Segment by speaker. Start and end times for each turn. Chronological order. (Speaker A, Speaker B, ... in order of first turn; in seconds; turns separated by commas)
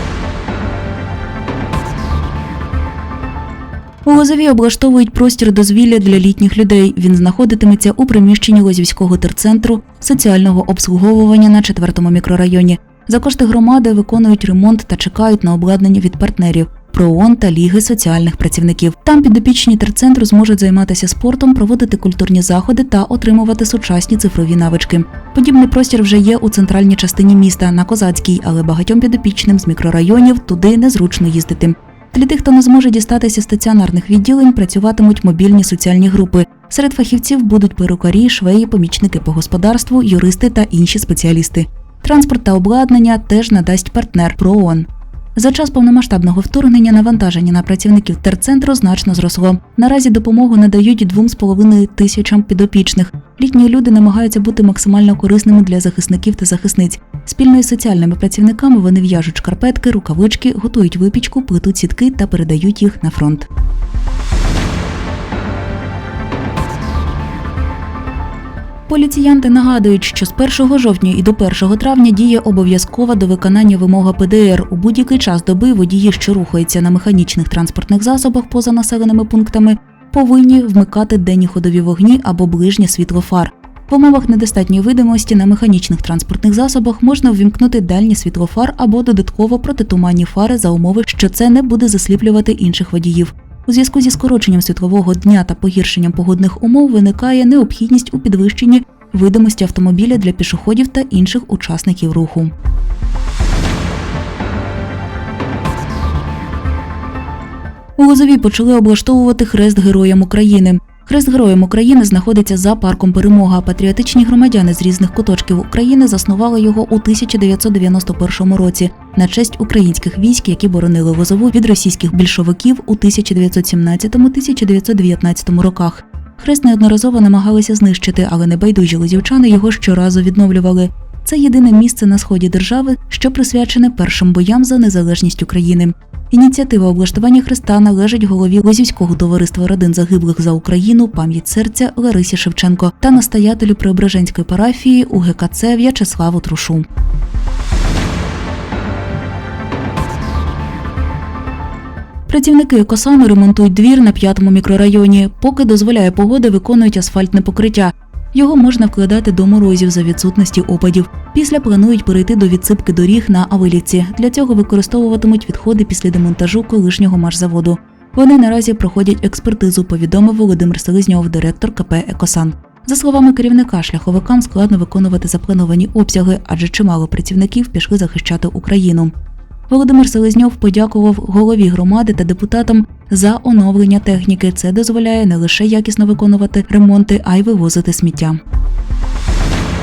Speaker A: 4.0-63.5, Speaker A: 68.9-102.5, Speaker A: 108.0-146.9, Speaker A: 152.3-179.1, Speaker A: 179.7-188.4